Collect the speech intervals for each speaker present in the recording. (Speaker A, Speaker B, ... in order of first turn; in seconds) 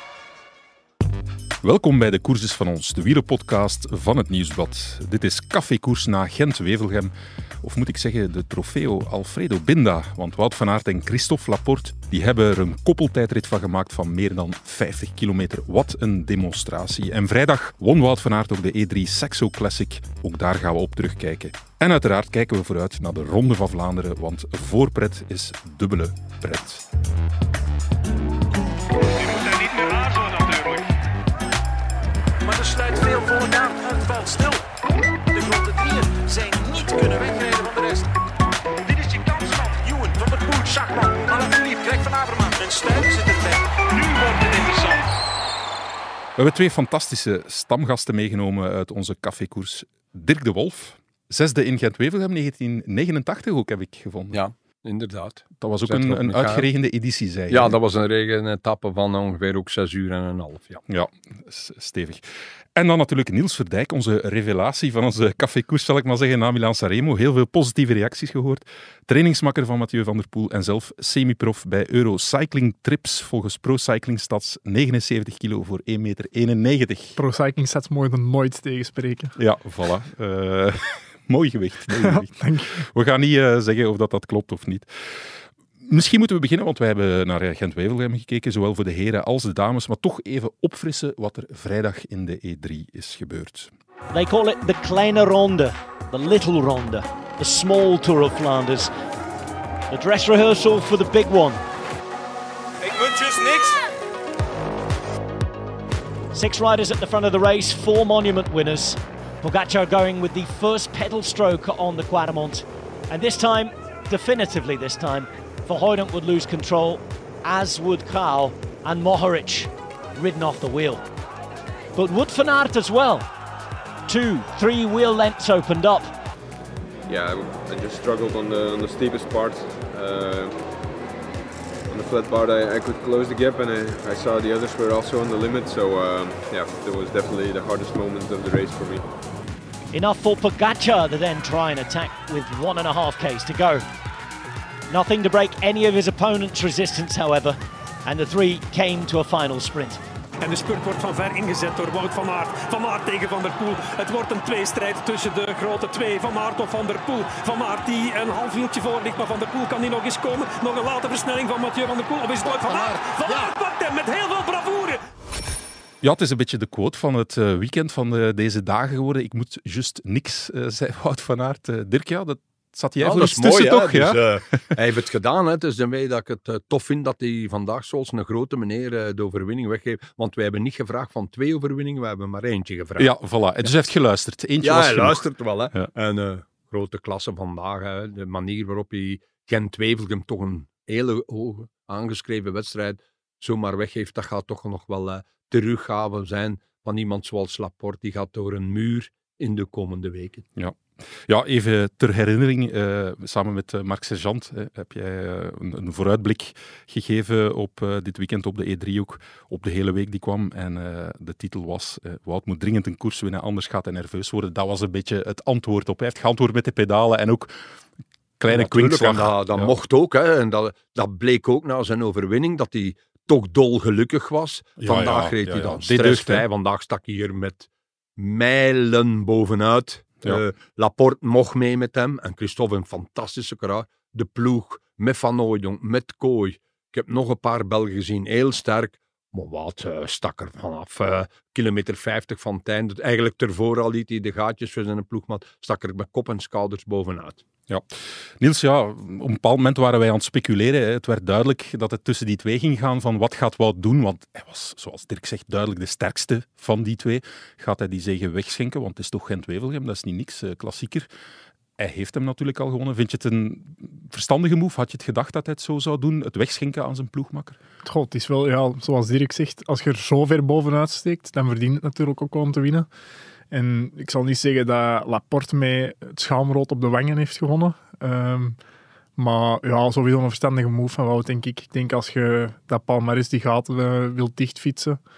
Speaker A: 1.6-26.9, 46.4-54.4, 55.6-57.8, 60.9-77.2, 79.4-93.7, 166.0-174.7, 183.0-185.9, 200.6-217.6, 218.4-219.7, 224.8-226.5, 247.7-261.1, 261.8-267.6
Speaker B: 29.0-30.9, 32.4-34.6, 35.3-38.1, 38.8-45.0, 102.8-103.8, 150.4-165.0
Speaker C: 54.3-56.7, 57.5-60.8, 173.0-183.1, 184.6-200.4, 218.5-247.4
Speaker D: 77.2-79.4, 82.0-82.8, 267.8-272.9, 273.5-278.6, 279.2-285.0
Speaker E: 94.1-98.9, 99.9-101.6, 106.3-121.0, 122.0-123.3, 124.1-126.1, 139.9-143.8, 144.9-150.0
Speaker F: 127.1-130.6, 131.9-139.1